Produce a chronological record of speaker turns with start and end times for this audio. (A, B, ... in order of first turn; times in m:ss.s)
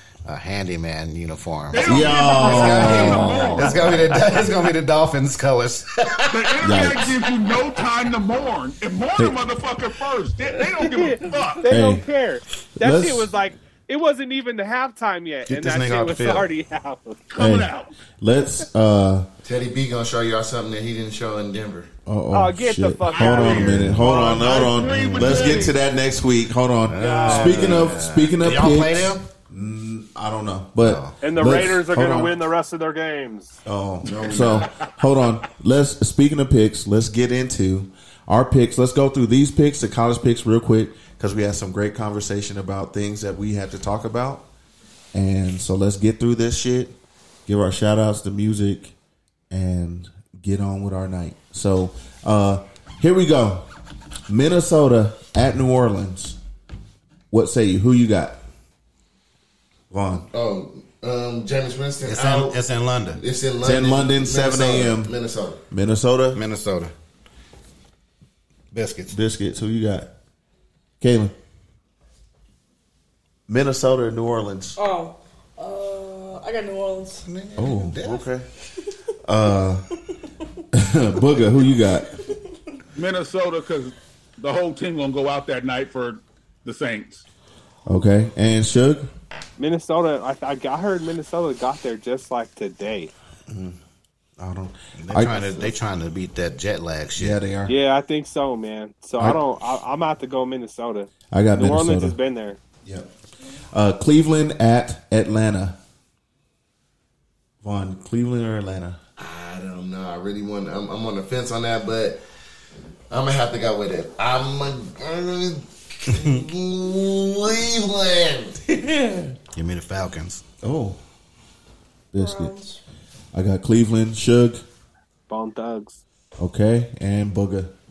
0:00.2-0:06.9 A
0:01.7-0:03.9 B
0:01.8-0:03.6 C
0:03.0-0:03.7 D
0:06.3-0:11.7 B
0:06.6-0:07.2 C
0:10.8-0:17.3 D
0:11.7-0:12.0 C
0:12.8-0:13.3 C
0:15.5-0:16.5 A
0:17.3-0:17.9 B
0:17.4-0:19.3 C
0:19.4-0:21.9 E
0:22.1-0:32.4 C
0:22.3-0:23.8 D
0:23.1-0:25.8 B
0:24.6-0:25.7 A
0:26.9-0:29.2 A
0:27.0-0:27.9 D
0:27.4-0:27.9 E
0:30.8-0:31.2 A
0:31.2-0:33.6 D
0:33.7-0:44.5 C
0:34.0-0:34.8 E
0:45.1-0:48.9 C
0:49.5-0:53.7 C
0:54.3-0:56.4 C
0:57.3-0:58.4 C
0:59.9-1:00.3 C
1:00.3-1:02.6 E
1:02.0-1:03.2 A
1:03.2-1:05.6 E
1:03.6-1:05.1 C
1:05.7-1:06.4 C
1:06.3-1:06.9 A
1:08.7-1:09.2 A
1:09.1-1:10.1 C
1:11.0-1:11.3 C
1:13.5-1:14.8 C
1:14.8-1:17.3 F
1:17.2-1:18.3 A
1:17.6-1:18.5 C
1:19.2-1:19.9 C
1:20.7-1:22.2 C
1:23.0-1:27.2 B
1:27.9-1:29.1 C
1:29.6-1:33.1 D
1:33.5-1:33.8 C
1:34.4-1:35.7 C
1:35.0-1:37.4 A
1:37.2-1:37.8 C
1:37.7-1:42.6 D
1:41.3-1:42.2 C
1:43.7-1:45.8 C
1:47.6-1:49.0 C
1:49.2-1:52.2 E
1:53.1-1:58.6 E
1:59.5-2:00.4 A
2:00.6-2:01.0 C
2:02.1-2:02.6 C
2:02.2-2:02.8 F
2:03.3-2:04.6 C
2:05.3-2:06.0 D
2:06.4-2:07.7 C